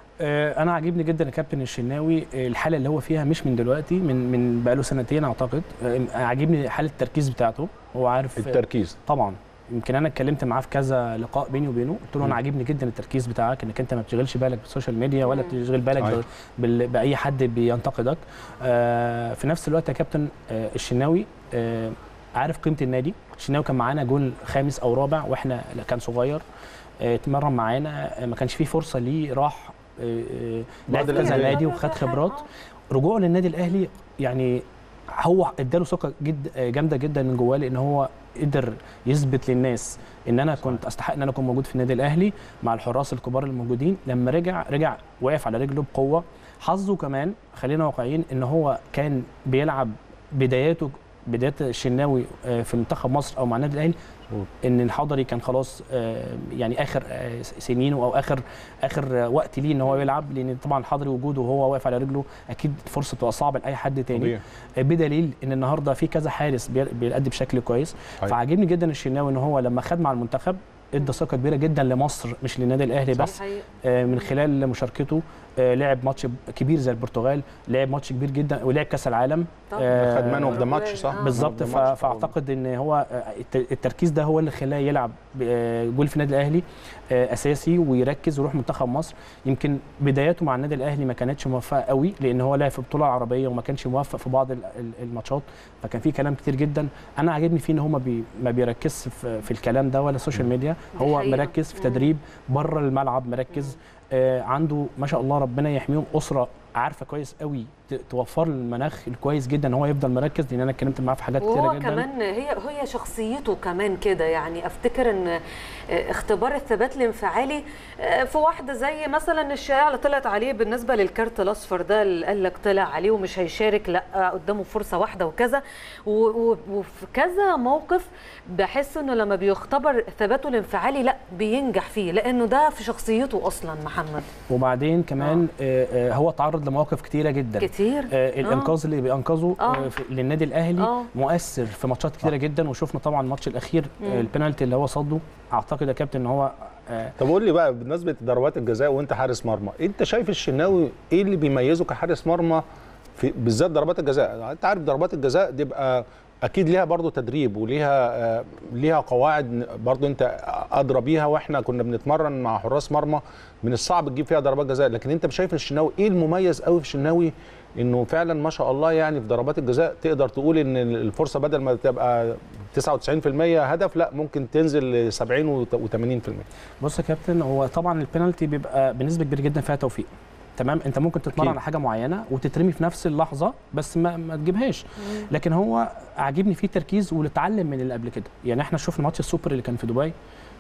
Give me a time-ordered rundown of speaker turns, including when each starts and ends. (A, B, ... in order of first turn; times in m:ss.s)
0:00.2-0:26.4 A
0:08.4-0:09.0 B
0:15.2-0:15.5 C
0:27.0-0:32.4 A
0:30.9-0:31.6 B
0:30.9-0:32.5 C
0:32.9-0:54.0 A
0:54.6-1:52.0 A
1:04.1-1:04.4 B
1:13.2-1:14.3 C
1:19.7-1:21.4 C
1:19.9-1:22.3 B
1:41.0-1:42.1 C
1:51.4-2:14.3 C
2:14.5-2:27.1 A
2:17.6-2:18.7 C
2:19.6-2:19.9 C
2:20.8-2:21.1 C
2:24.0-2:24.3 C
2:27.2-2:32.6 B
2:33.2-2:56.5 B
2:56.8-3:10.1 A
3:05.0-3:05.3 C